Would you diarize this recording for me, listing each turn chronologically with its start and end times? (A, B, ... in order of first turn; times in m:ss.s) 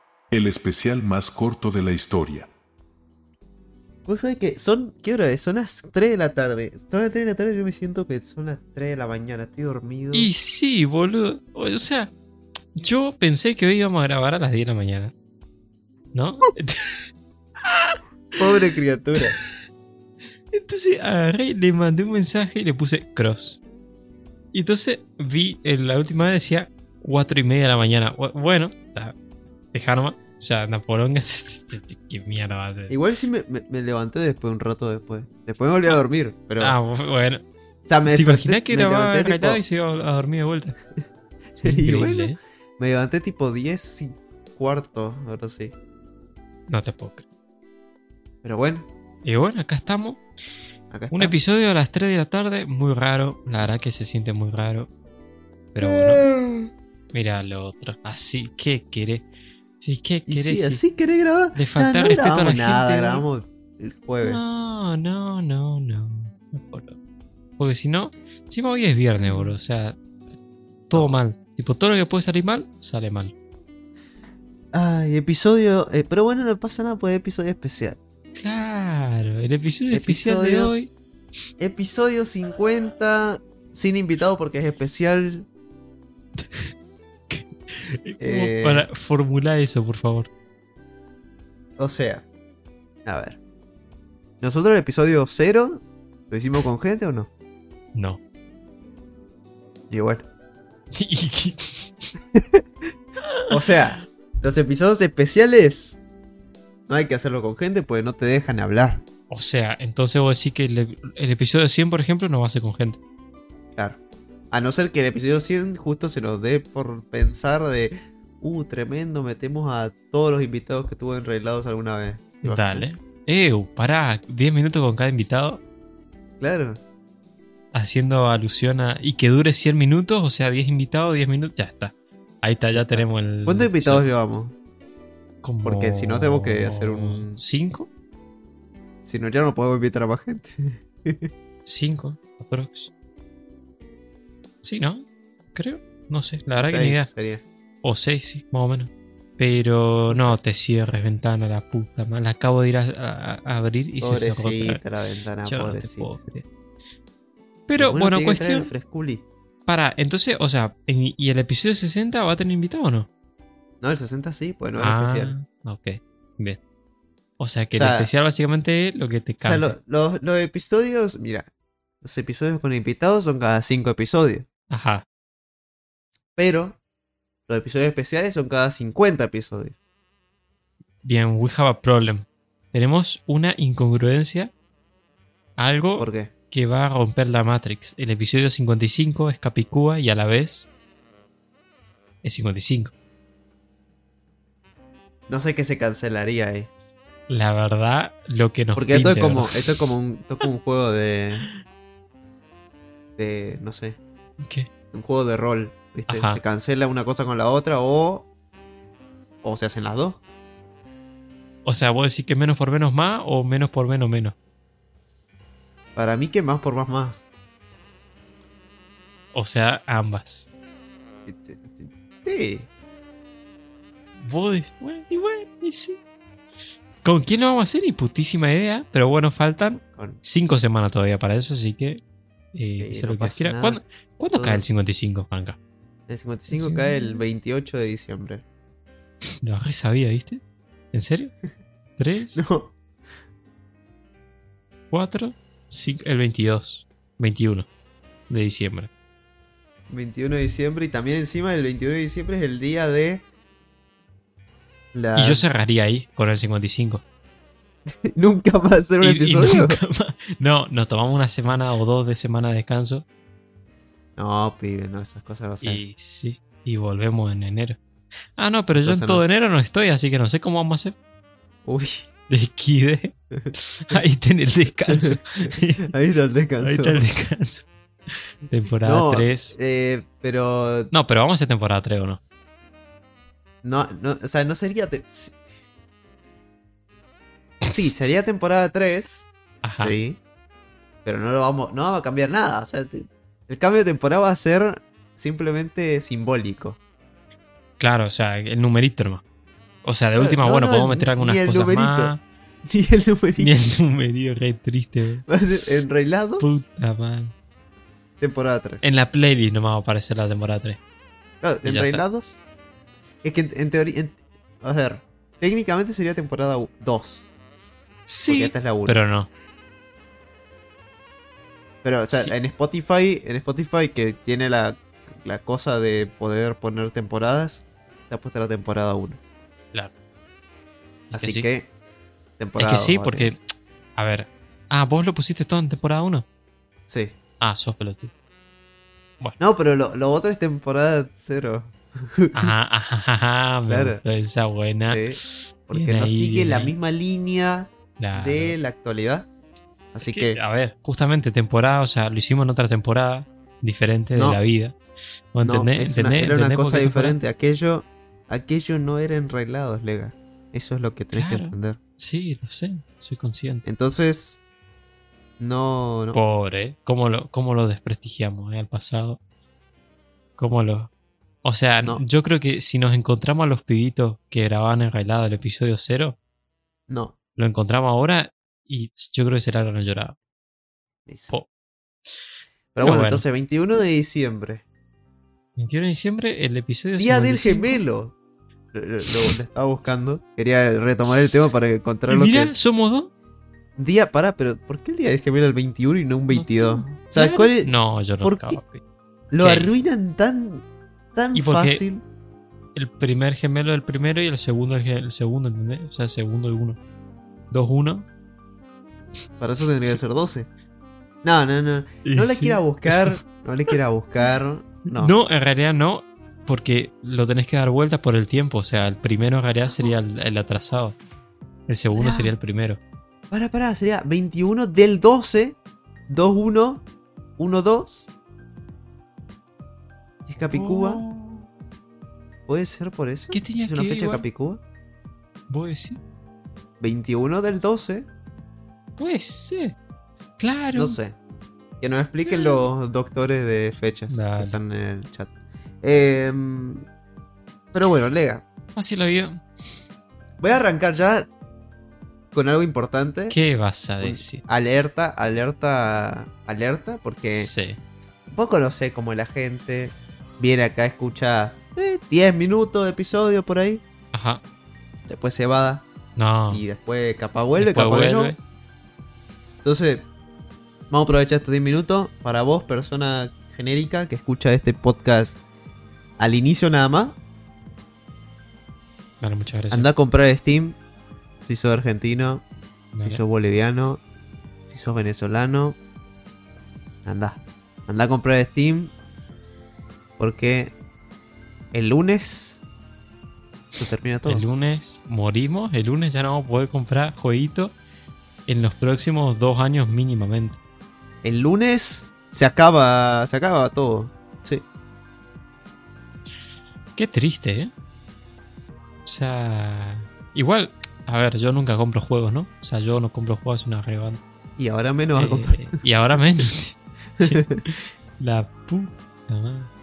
0:00.3-0:02.5 A
0:04.0-0:10.3 B
0:10.1-0:12.1 C
0:12.7-0:15.1 C
0:16.1-0:17.1 C
0:17.6-0:18.7 C
0:18.4-0:19.3 B
0:19.2-0:19.4 C
0:20.5-0:23.6 C
0:24.5-0:29.2 C
0:29.7-0:33.0 C
0:32.9-0:36.8 B
0:36.6-0:37.4 C
0:37.9-0:39.6 B
0:38.0-0:40.8 C
0:41.6-0:42.4 C
0:41.6-0:45.7 B
0:46.7-0:47.2 C
0:48.4-0:48.9 B
0:49.2-0:50.2 C
0:50.9-0:51.4 B
0:51.1-0:54.9 C
0:55.7-0:56.2 C
0:55.8-0:56.7 B
0:57.1-0:59.3 C
0:59.8-1:00.8 C
1:00.3-1:04.4 B
1:01.5-1:03.2 C
1:04.2-1:07.0 C
1:07.6-1:10.0 C
1:09.2-1:09.5 B
1:10.9-1:13.3 C
1:10.9-1:11.2 B
1:14.7-1:18.0 B
1:18.3-1:20.9 C
1:19.9-1:20.7 B
1:21.6-1:25.5 B
1:26.4-1:26.7 C
1:27.3-1:30.3 C
1:28.2-1:28.9 B
1:31.8-1:32.2 B
1:33.0-1:33.4 B
1:34.4-1:37.3 B
1:37.9-1:38.2 C
1:39.9-1:40.2 B
1:40.9-1:42.1 C
1:42.3-1:42.6 B
1:43.2-1:44.0 C
1:43.5-1:46.0 B
1:46.9-1:49.0 B
1:49.3-1:53.0 C
1:54.5-2:02.8 B
2:02.4-2:05.6 C
2:06.4-2:06.8 B
2:07.7-2:14.1 C
2:12.7-2:14.5 B
2:15.4-2:17.9 C
2:15.6-2:17.4 B
2:19.0-2:21.3 B
2:21.6-2:22.9 C
2:24.6-2:27.1 C
2:26.6-2:27.4 B
2:27.8-2:34.9 C
2:30.1-2:30.4 B
2:34.0-2:36.1 B
2:35.4-2:36.5 C
2:37.7-2:38.7 C
2:37.8-2:39.2 B
2:39.6-2:43.1 C
2:43.8-2:45.3 B
2:44.8-2:46.6 C
2:47.4-2:49.8 C
2:47.7-2:48.1 B
2:49.4-2:51.5 B
2:52.0-2:54.4 B
2:54.7-2:55.0 C
2:56.4-2:56.8 B
2:57.5-2:59.7 B
3:01.0-3:04.5 C
3:05.6-3:10.7 C
3:06.0-3:06.3 B
3:12.2-3:12.9 C
3:15.3-3:16.7 B
3:17.3-3:19.6 C
3:18.7-3:21.4 B
3:23.2-3:24.0 B
3:24.4-3:24.7 C
3:24.9-3:28.3 B
3:26.1-3:26.4 C
3:29.4-3:30.2 B
3:31.6-3:34.3 C
3:36.0-3:37.3 B
3:39.3-3:40.5 C
3:41.2-3:42.7 B
3:44.2-3:46.0 C
3:47.0-3:52.0 C
3:52.5-3:55.6 C
3:52.8-3:53.8 B
3:54.3-3:54.6 B
3:56.1-3:58.4 B
3:56.5-3:57.2 C
3:59.4-4:00.4 C
4:00.9-4:01.3 C
4:02.0-4:02.4 C
4:02.3-4:02.8 B
4:04.9-4:07.7 C
4:08.3-4:08.9 C
4:09.9-4:13.2 B
4:14.9-4:15.4 B
4:15.1-4:17.0 C
4:17.9-4:19.8 B
4:19.0-4:23.0 C
4:24.2-4:25.8 B
4:25.6-4:27.8 C
4:28.4-4:31.0 C
4:28.8-4:29.2 B
4:31.6-4:32.1 B
4:32.3-4:35.9 C
4:33.3-4:34.0 B
4:34.9-4:37.0 B
4:36.6-4:37.7 C
4:38.4-4:39.6 C
4:38.8-4:40.9 B
4:40.9-4:42.2 C
4:43.6-4:45.4 B
4:47.7-4:50.2 B
4:49.6-4:50.0 C
4:51.0-4:56.8 B
4:57.8-4:59.2 C
4:59.8-5:02.2 C
5:00.2-5:02.1 B
5:02.6-5:03.6 B
5:03.4-5:05.2 C
5:05.3-5:06.6 B
5:06.4-5:07.3 C
5:08.2-5:08.8 B
5:08.8-5:10.8 C
5:11.4-5:12.4 B
5:11.6-5:12.0 C
5:13.2-5:17.3 B
5:18.1-5:19.3 C
5:18.3-5:19.0 B
5:21.8-5:29.2 B
5:22.1-5:22.4 C
5:31.1-5:31.7 B
5:31.1-5:31.5 C
5:32.4-5:33.3 B
5:32.6-5:33.4 C
5:34.0-5:36.2 C
5:36.9-5:37.2 B
5:37.4-5:38.1 C
5:39.4-5:42.5 B
5:42.3-5:46.7 C
5:43.7-5:44.0 B
5:44.9-5:49.3 B
5:48.0-5:48.6 C
5:49.9-5:50.4 B
5:50.0-5:54.8 C
5:54.1-5:54.4 B
5:55.3-5:57.2 C
5:55.4-6:01.8 B
6:01.1-6:03.6 C
6:03.6-6:04.4 B
6:05.4-6:06.2 B
6:06.1-6:09.2 C
6:10.4-6:10.9 C
6:11.4-6:16.2 C
6:16.9-6:17.1 B
6:17.4-6:20.2 C
6:21.0-6:21.3 B
6:22.7-6:24.6 B
6:22.8-6:23.2 C
6:25.6-6:27.8 C
6:27.0-6:28.1 B
6:28.7-6:32.5 B
6:32.1-6:33.1 C
6:33.8-6:38.6 B
6:36.3-6:38.8 C
6:39.3-6:42.0 B
6:39.4-6:39.7 C
6:41.3-6:41.8 C
6:42.7-6:46.8 C
6:47.5-6:48.0 C
6:49.4-6:50.5 B
6:51.2-6:55.1 B
6:52.0-6:53.7 C
6:54.9-7:01.0 C
7:01.7-7:02.8 C
7:01.9-7:02.3 B
7:03.3-7:05.6 B
7:06.1-7:06.8 B
7:07.4-7:08.1 B
7:10.2-7:11.0 B
7:10.4-7:11.5 C
7:12.5-7:14.6 B
7:13.3-7:14.2 C
7:15.5-7:16.0 C
7:16.8-7:18.1 B
7:19.0-7:19.8 C
7:20.4-7:21.0 C
7:20.7-7:21.2 B
7:21.8-7:25.3 B
7:22.2-7:22.6 C
7:24.1-7:24.6 C
7:25.8-7:26.8 B
7:27.7-7:28.4 B
7:28.7-7:29.4 C
7:30.4-7:31.3 B
7:32.3-7:33.4 B
7:33.3-7:34.4 C
7:34.0-7:37.5 B
7:37.4-7:37.8 C
7:38.3-7:43.8 B
7:44.1-7:44.4 C
7:45.1-7:45.8 B
7:46.2-7:46.6 C
7:46.5-7:48.4 B
7:47.6-7:48.4 C
7:49.6-7:50.1 B
7:50.9-7:55.4 B
7:56.2-7:57.2 B
7:59.2-7:59.9 C
7:59.7-8:00.8 B
8:01.5-8:02.4 B
8:02.9-8:03.2 C
8:03.0-8:04.0 B
8:04.7-8:05.8 B
8:07.0-8:08.9 B
8:10.2-8:10.7 B
8:11.7-8:12.6 B
8:13.8-8:14.4 B
8:14.2-8:17.8 C
8:18.5-8:20.6 C
8:21.2-8:24.6 B
8:27.0-8:27.7 C
8:29.0-8:34.2 C
8:34.6-8:35.8 B
8:35.1-8:39.7 C
8:37.2-8:37.6 B